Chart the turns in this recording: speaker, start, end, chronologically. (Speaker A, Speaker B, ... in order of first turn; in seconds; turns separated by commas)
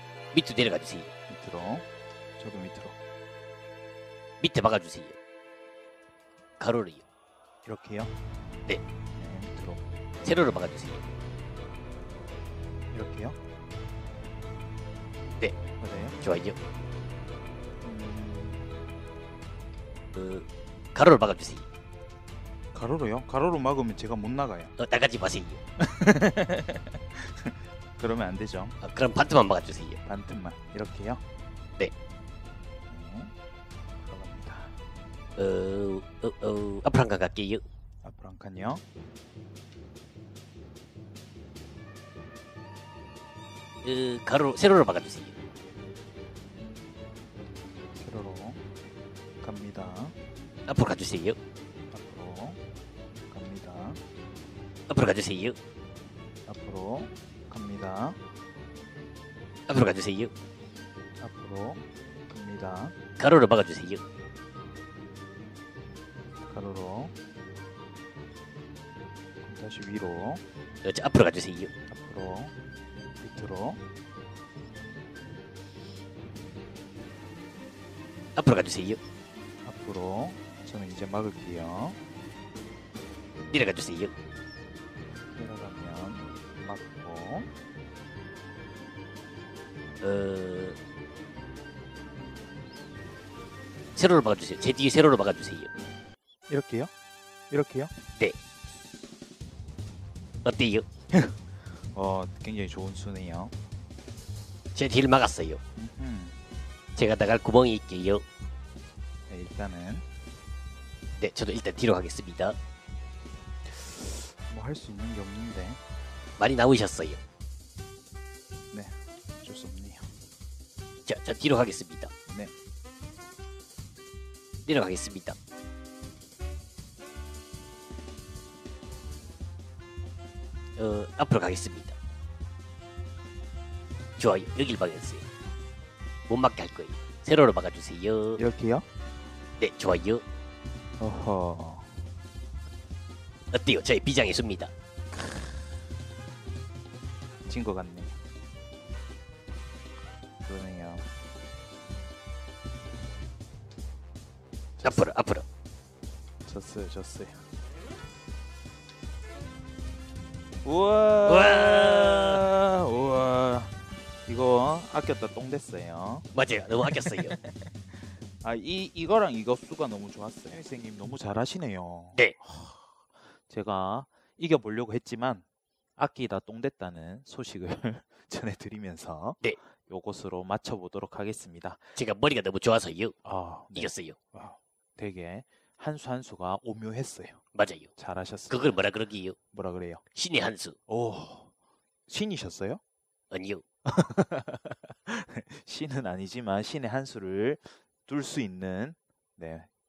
Speaker A: 0.3-1.1, Speaker B: 1.3-1.9, Speaker B: 2.4-3.0, Speaker A: 4.4-5.2, Speaker A: 6.6-7.0, Speaker B: 7.7-8.1, Speaker B: 9.2-9.8, Speaker A: 10.2-11.0, Speaker B: 12.9-13.4, Speaker B: 15.8-16.2, Speaker A: 16.2-16.6, Speaker B: 17.8-18.7, Speaker A: 20.1-21.7, Speaker B: 22.7-24.7, Speaker A: 24.8-25.6, Speaker B: 25.8-28.8, Speaker A: 28.8-30.0, Speaker B: 30.1-31.2, Speaker B: 32.9-33.3, Speaker B: 34.0-34.8, Speaker A: 35.4-37.6, Speaker B: 38.0-38.8, Speaker A: 43.8-45.3, Speaker B: 48.0-48.6, Speaker B: 49.4-50.2, Speaker A: 50.7-51.4, Speaker B: 51.9-52.6, Speaker B: 53.3-54.0, Speaker A: 54.9-55.6, Speaker B: 56.5-58.2, Speaker A: 59.7-60.3, Speaker B: 61.2-63.0, Speaker A: 63.2-64.0, Speaker B: 66.5-67.1, Speaker B: 69.4-70.4, Speaker A: 70.8-71.7, Speaker B: 71.9-72.5, Speaker B: 73.2-73.8, Speaker A: 78.4-79.0, Speaker B: 79.7-82.0, Speaker A: 83.5-84.1, Speaker B: 85.3-87.5, Speaker A: 90.0-90.8, Speaker A: 94.0-95.7, Speaker B: 96.5-96.9, Speaker B: 97.5-97.9, Speaker A: 100.4-100.9, Speaker B: 101.1-103.5, Speaker A: 104.8-105.6, Speaker B: 105.8-106.4, Speaker A: 107.0-108.2, Speaker B: 109.3-110.0, Speaker A: 111.2-112.6, Speaker B: 113.7-115.8, Speaker A: 116.4-117.2, Speaker B: 118.7-120.2, Speaker A: 121.1-122.1, Speaker A: 124.7-125.4, Speaker A: 130.8-132.0, Speaker A: 134.2-135.2, Speaker A: 136.3-138.4, Speaker B: 138.4-138.9, Speaker A: 139.6-140.2, Speaker B: 141.0-142.0, Speaker A: 143.5-144.7, Speaker B: 147.5-148.2, Speaker B: 150.5-151.1, Speaker B: 154.8-155.1, Speaker A: 154.8-155.4, Speaker B: 156.5-157.4, Speaker B: 160.6-163.8, Speaker A: 161.3-162.4, Speaker B: 164.3-166.3, Speaker A: 166.3-167.4, Speaker B: 166.8-167.5, Speaker B: 168.4-172.9, Speaker B: 173.5-175.4, Speaker B: 176.0-181.8, Speaker A: 181.9-183.1, Speaker B: 183.2-187.4, Speaker A: 183.8-184.2, Speaker A: 187.5-187.9, Speaker B: 188.0-188.8, Speaker A: 188.5-189.4, Speaker B: 189.5-190.0, Speaker A: 190.1-190.8, Speaker B: 190.9-191.5, Speaker B: 192.1-192.8, Speaker A: 193.3-193.6, Speaker B: 193.9-199.7